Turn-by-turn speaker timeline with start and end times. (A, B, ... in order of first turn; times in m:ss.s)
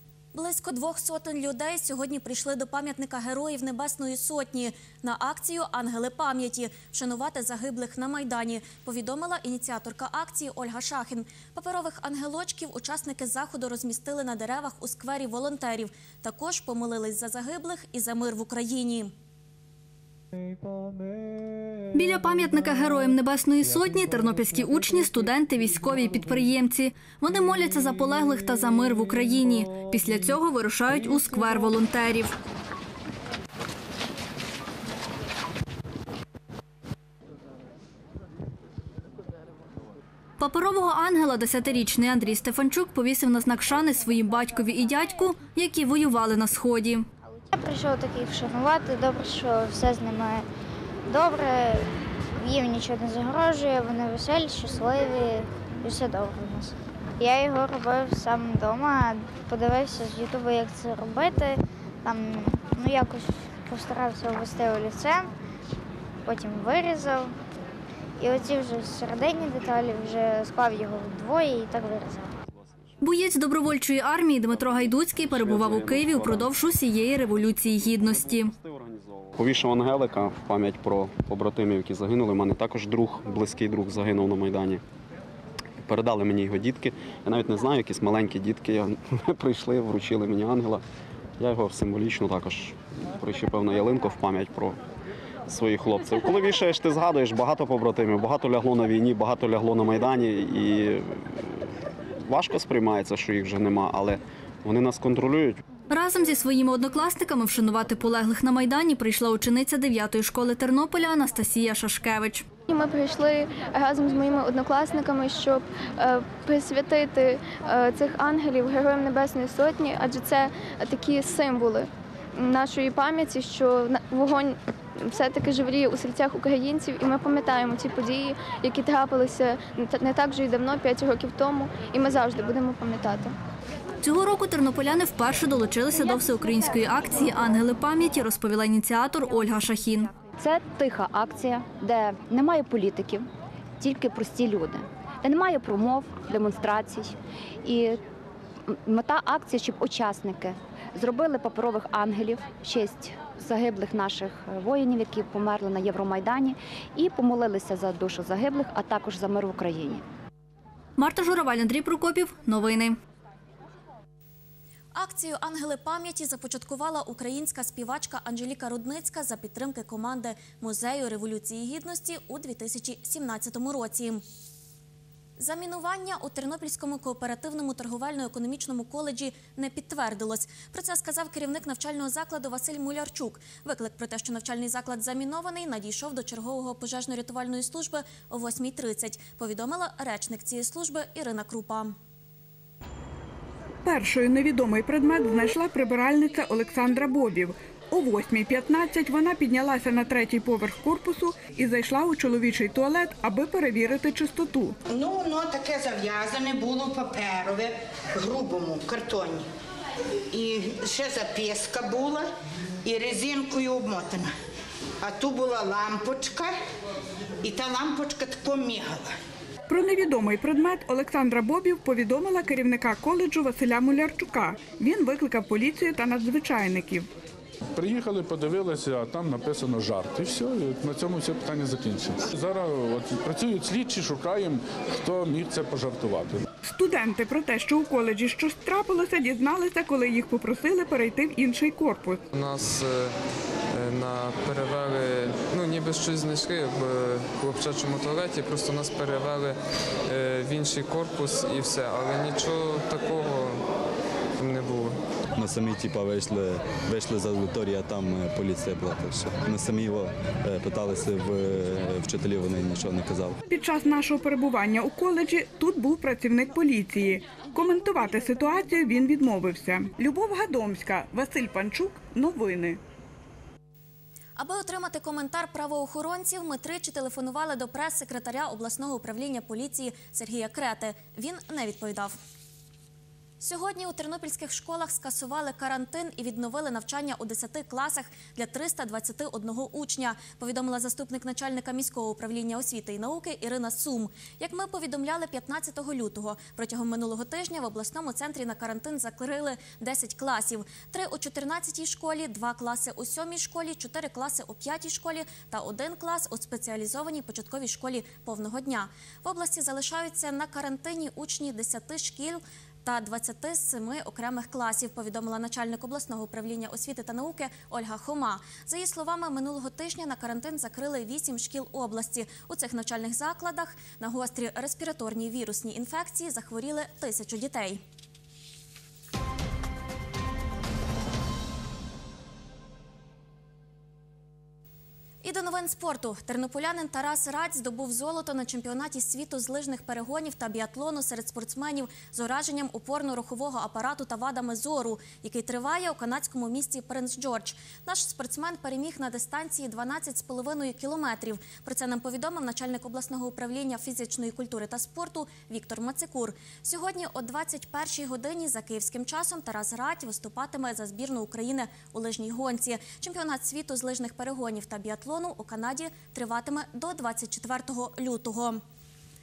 0:00.3-0:19.1 A
0:21.9-0:32.4 B
0:40.4-0:47.1 B
0:47.3-0:50.4 C
0:51.1-0:51.9 C
0:52.4-1:05.3 C
1:06.3-1:07.3 C
1:08.2-1:12.3 C
1:13.0-1:18.5 B
1:14.5-1:16.5 D
1:17.1-1:24.8 D
1:25.9-1:30.8 D
1:31.4-1:34.8 D
1:35.5-1:41.6 D
1:42.3-1:45.6 D
1:45.9-1:52.5 B
1:52.7-2:13.3 E
2:14.0-2:20.1 B
2:20.4-2:23.3 F
2:23.8-2:28.0 F
2:28.7-2:40.0 F
2:41.0-2:43.0 B
2:45.0-2:54.2 A
2:55.4-3:12.0 A
3:13.8-3:24.8 G
3:24.9-3:29.5 H
3:30.3-3:32.3 H
3:32.8-3:34.3 H
3:35.0-3:36.5 H
3:37.4-3:39.1 H
3:39.7-3:47.1 G
3:47.7-3:56.4 I
3:56.6-4:02.2 G
4:02.3-4:03.2 J
4:03.7-4:13.6 J
4:14.4-4:15.0 J
4:15.4-4:23.4 K
4:23.5-4:32.8 G
4:34.4-4:42.2 A
4:43.4-5:27.8 A
5:35.2-6:08.6 A